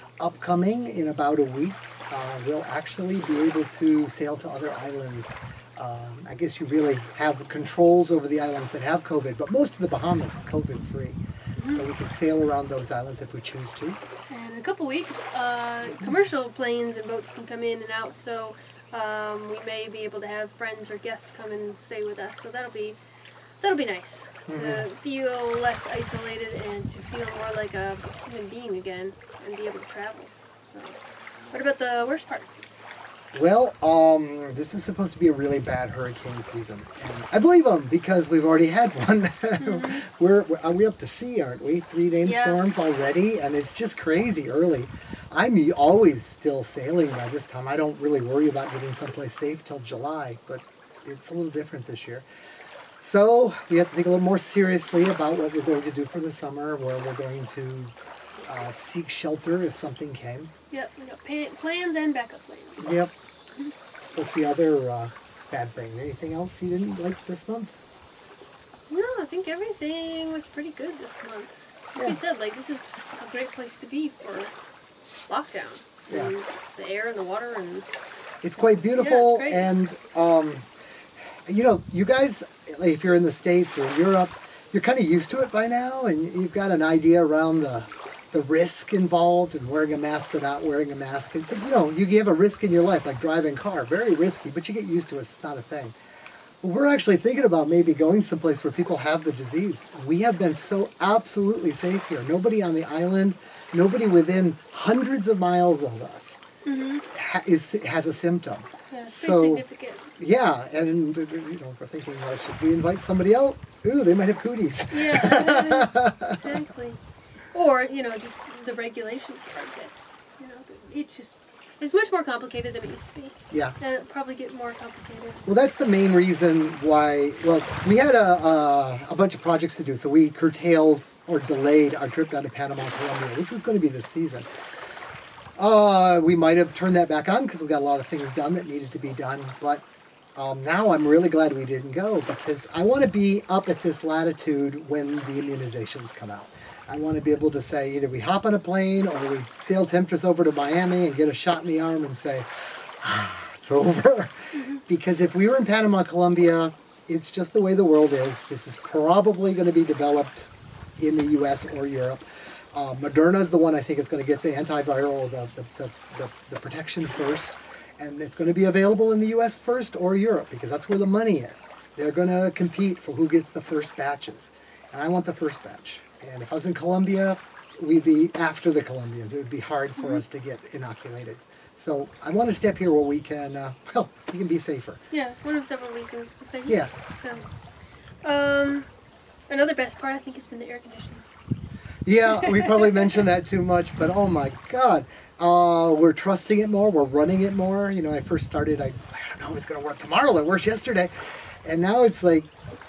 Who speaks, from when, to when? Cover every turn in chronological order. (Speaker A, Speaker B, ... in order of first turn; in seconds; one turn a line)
Speaker A: 0.2-14.0
Speaker B: 11.6-11.9
Speaker B: 14.3-23.0
Speaker B: 23.6-31.0
Speaker A: 24.5-24.9
Speaker B: 31.5-32.6
Speaker A: 33.3-52.2
Speaker B: 39.6-40.0
Speaker B: 42.2-42.6
Speaker A: 53.0-57.9
Speaker A: 58.5-60.5
Speaker B: 60.7-62.8
Speaker A: 62.8-63.1
Speaker A: 64.2-67.8
Speaker B: 68.9-74.6
Speaker B: 75.2-77.9
Speaker A: 78.4-80.7
Speaker B: 79.0-79.7
Speaker A: 81.5-96.0
Speaker A: 96.6-106.4
Speaker B: 106.7-107.0
Speaker A: 107.1-109.7
Speaker B: 108.9-110.1
Speaker A: 110.2-116.4
Speaker B: 114.9-117.0
Speaker B: 117.5-125.4
Speaker A: 123.5-123.8
Speaker A: 125.5-134.5
Speaker A: 135.6-152.5
Speaker A: 153.0-185.0
Speaker B: 154.5-154.8
Speaker B: 180.0-180.2
Speaker B: 185.1-187.5
Speaker A: 186.7-186.9
Speaker B: 188.2-188.9
Speaker B: 189.5-191.2
Speaker A: 192.1-201.1
Speaker B: 192.4-193.0
Speaker A: 201.6-202.5